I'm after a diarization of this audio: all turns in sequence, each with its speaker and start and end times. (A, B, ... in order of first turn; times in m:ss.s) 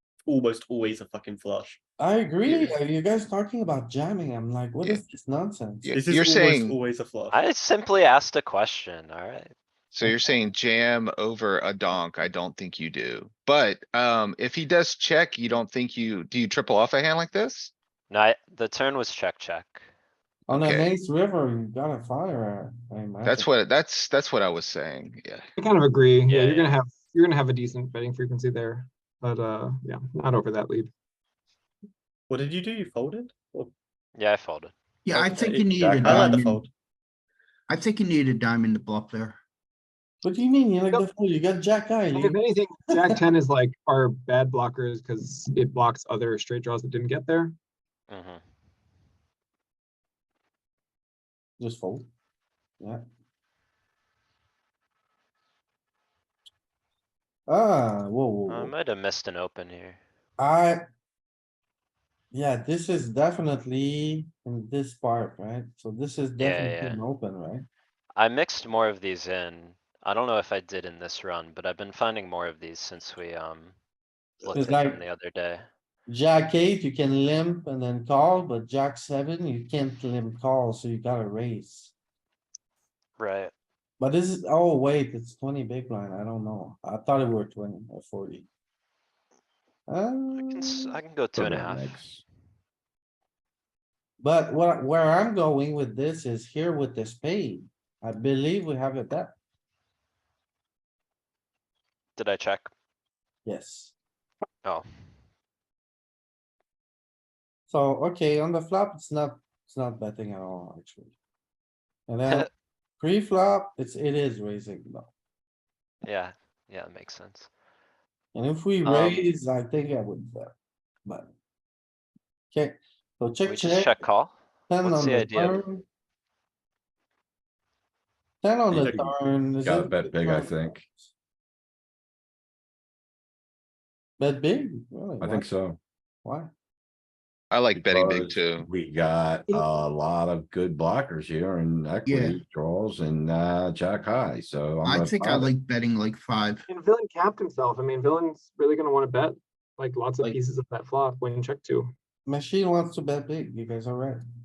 0:00.2-0:01.8 A
0:02.0-0:05.9 B
0:02.4-0:02.8 A
0:05.8-0:06.8 C
0:05.9-0:07.4 A
0:07.3-0:09.5 D
0:09.9-0:17.7 C
0:18.1-0:19.8 D
0:20.5-0:23.5 B
0:20.5-0:20.9 C
0:23.2-0:25.4 C
0:25.6-0:30.9 E
0:26.3-0:26.8 D
0:32.3-0:33.7 A
0:34.2-0:34.7 D
0:35.0-0:36.7 F
0:35.1-0:36.7 A
0:37.7-0:39.4 F
0:40.2-0:43.2 B
0:42.1-0:47.6 E
0:48.1-0:48.4 D
0:51.6-0:52.1 B
0:57.5-0:58.7 B
0:58.5-1:00.0 D
1:00.4-1:00.8 B
1:02.3-1:07.7 B
1:06.4-1:07.0 D
1:08.2-1:13.7 D
1:14.4-1:15.7 D
1:14.4-1:15.0 B
1:16.1-1:21.9 B
1:23.2-1:23.5 D
1:24.0-1:28.4 B
1:29.9-1:31.0 B
1:30.3-1:32.0 D
1:31.3-1:32.2 G
1:34.2-1:39.3 B
1:42.2-1:42.7 D
1:43.4-1:43.9 B
1:47.7-1:51.1 B
1:52.1-1:52.5 B
1:53.0-1:55.1 B
1:56.0-1:57.5 D
1:58.3-2:00.5 B
1:58.8-1:59.4 D
2:01.0-2:01.3 B
2:02.5-2:04.0 B
2:03.4-2:05.7 D
2:04.7-2:05.8 B
2:08.4-2:11.1 B
2:08.7-2:09.1 A
2:09.6-2:10.8 G
2:14.2-2:15.5 B
2:15.2-2:15.8 G
2:16.2-2:16.5 B
2:17.5-2:18.7 C
2:17.7-2:25.5 G
2:22.0-2:22.4 F
2:24.8-2:26.6 F
2:26.7-2:31.9 E
2:32.2-2:34.2 B